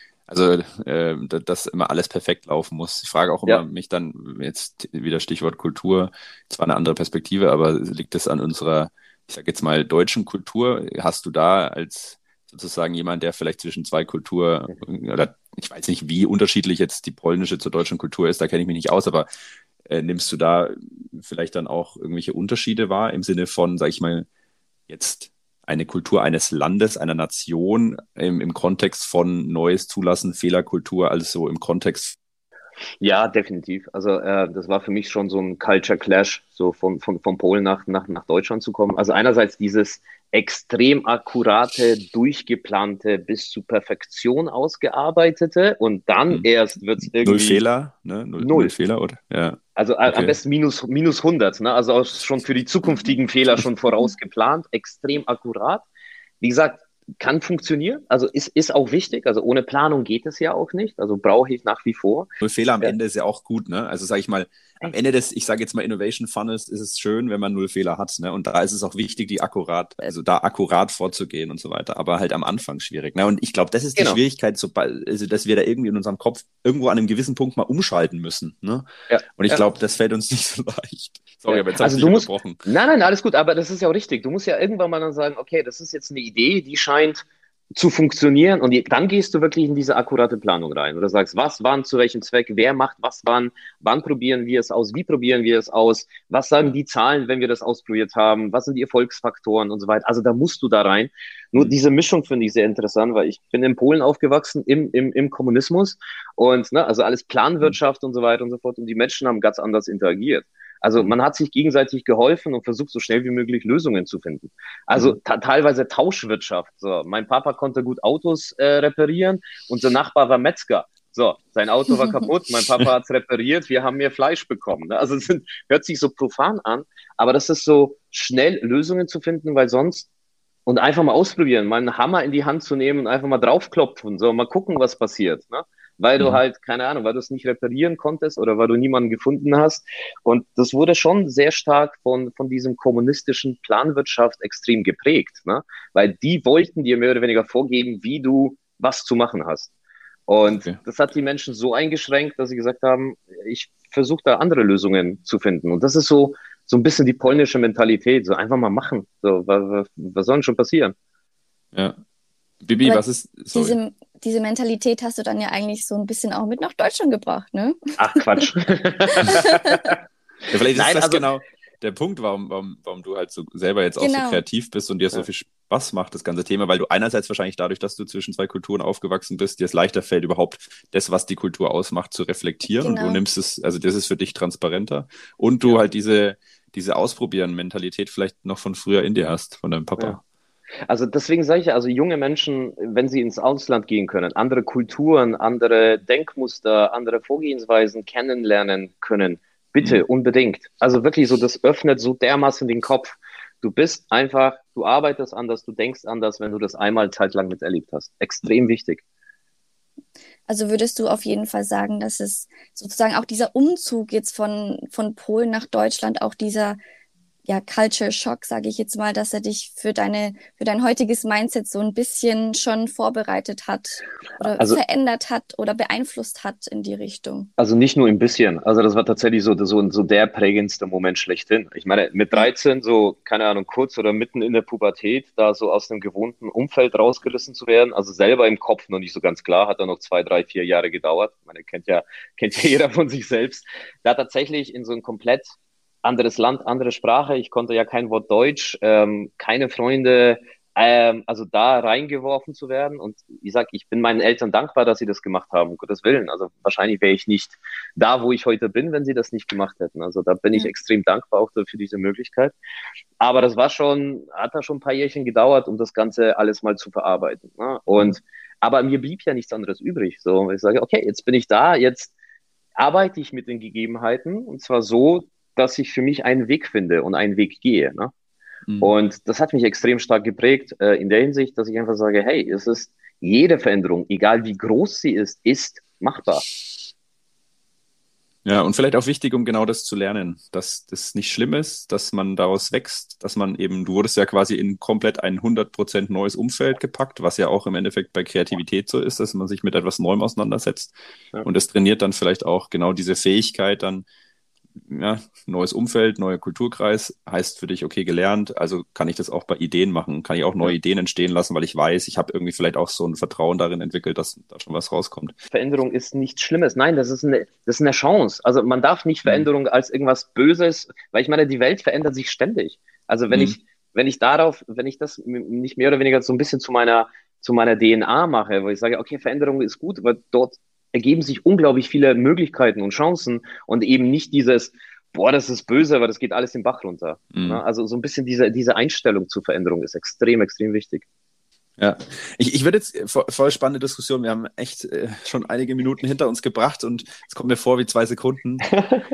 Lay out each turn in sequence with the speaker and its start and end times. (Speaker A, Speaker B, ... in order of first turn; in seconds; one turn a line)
Speaker A: 0.3-19.3
Speaker A: 19.9-24.3
Speaker A: 24.9-32.2
Speaker B: 33.0-47.6
Speaker A: 47.2-50.4
Speaker B: 48.4-48.7
Speaker B: 49.8-55.9
Speaker B: 56.4-62.3
Speaker A: 62.4-82.6
Speaker B: 79.1-79.6
Speaker B: 81.5-130.1
Speaker B: 130.7-149.7
Speaker B: 150.3-160.9
Speaker A: 150.4-150.8
Speaker A: 162.6-163.8
Speaker C: 162.8-167.8
Speaker B: 168.0-170.0
Speaker C: 169.2-169.8
Speaker A: 170.5-190.2
Speaker B: 170.8-171.3
Speaker C: 174.0-174.4
Speaker C: 182.8-183.2
Speaker B: 190.9-209.0
Speaker C: 210.5-216.8
Speaker C: 217.5-227.5
Speaker B: 224.4-224.8
Speaker B: 227.6-262.6
Speaker B: 263.2-272.1
Speaker B: 272.8-278.1
Speaker A: 278.7-278.9
Speaker B: 278.8-286.5
Speaker A: 288.4-304.1
Speaker A: 304.8-315.3
Speaker B: 315.5-341.1
Speaker A: 323.3-323.6
Speaker A: 337.3-337.6
Speaker A: 341.8-348.7
Speaker B: 348.7-349.1